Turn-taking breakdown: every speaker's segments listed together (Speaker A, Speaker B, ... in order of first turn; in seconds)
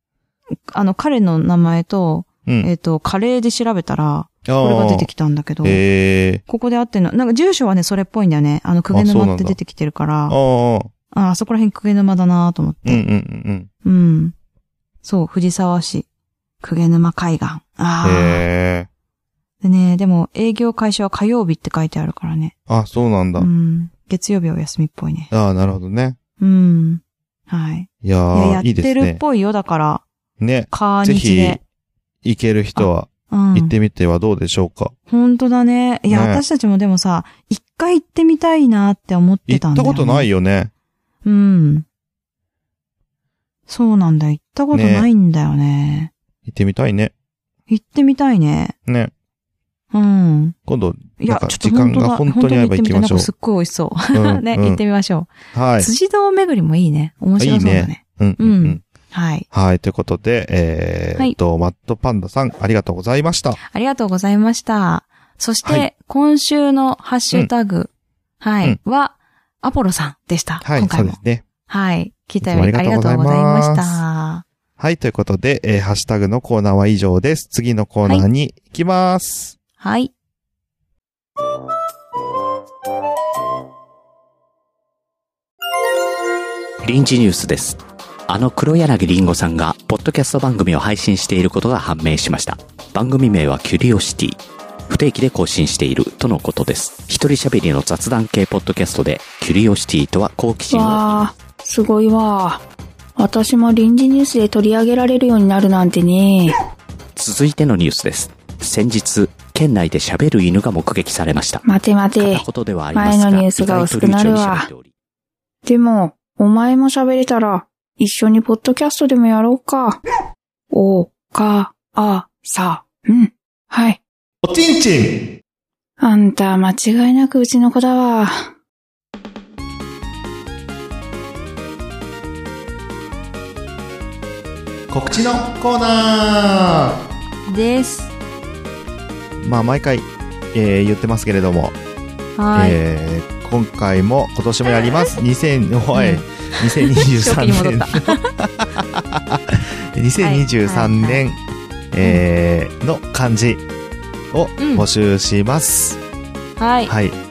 Speaker A: 0.7-5.8, 6.5-10.4, 11.1-13.0, 13.8-14.3, 15.0-16.1, 16.6-18.4, 19.6-22.5, 23.4-25.3, 26.4-30.0, 30.7-31.6, 32.7-33.7, 35.1-40.3, 41.2-41.8, 43.7-46.1, 47.7-48.7, 49.9-50.5, 51.2-59.5, 63.6-74.4, 79.8-80.1, 137.5-138.1, 142.4-142.8, 145.9-148.3, 150.2-151.2, 154.6-154.8, 156.6-156.9
Speaker B: 4.4-5.1, 5.6-6.4, 8.9-9.6, 10.3-10.9, 12.8-13.7, 18.0-18.9, 22.7-23.5, 25.3-26.2, 28.0-29.2, 30.4-31.6, 32.2-34.9, 36.1-36.4, 39.5-40.7, 44.7-45.1, 46.5-47.1, 48.9-49.1, 50.7-53.3, 54.1-54.8, 55.5-55.9, 57.4-58.8, 59.5-63.6, 70.6-71.4, 72.4-74.0, 74.8-79.6, 124.4-125.2, 134.9-137.0, 139.4-141.7, 142.5-151.4, 151.9-153.6, 154.3-156.0, 156.9-157.2
Speaker C: 86.8-101.2, 107.2-111.6, 112.2-114.9
Speaker D: 100.7-102.6, 103.2-106.5, 111.6-114.7, 115.7-120.0, 120.7-124.0, 126.0-128.5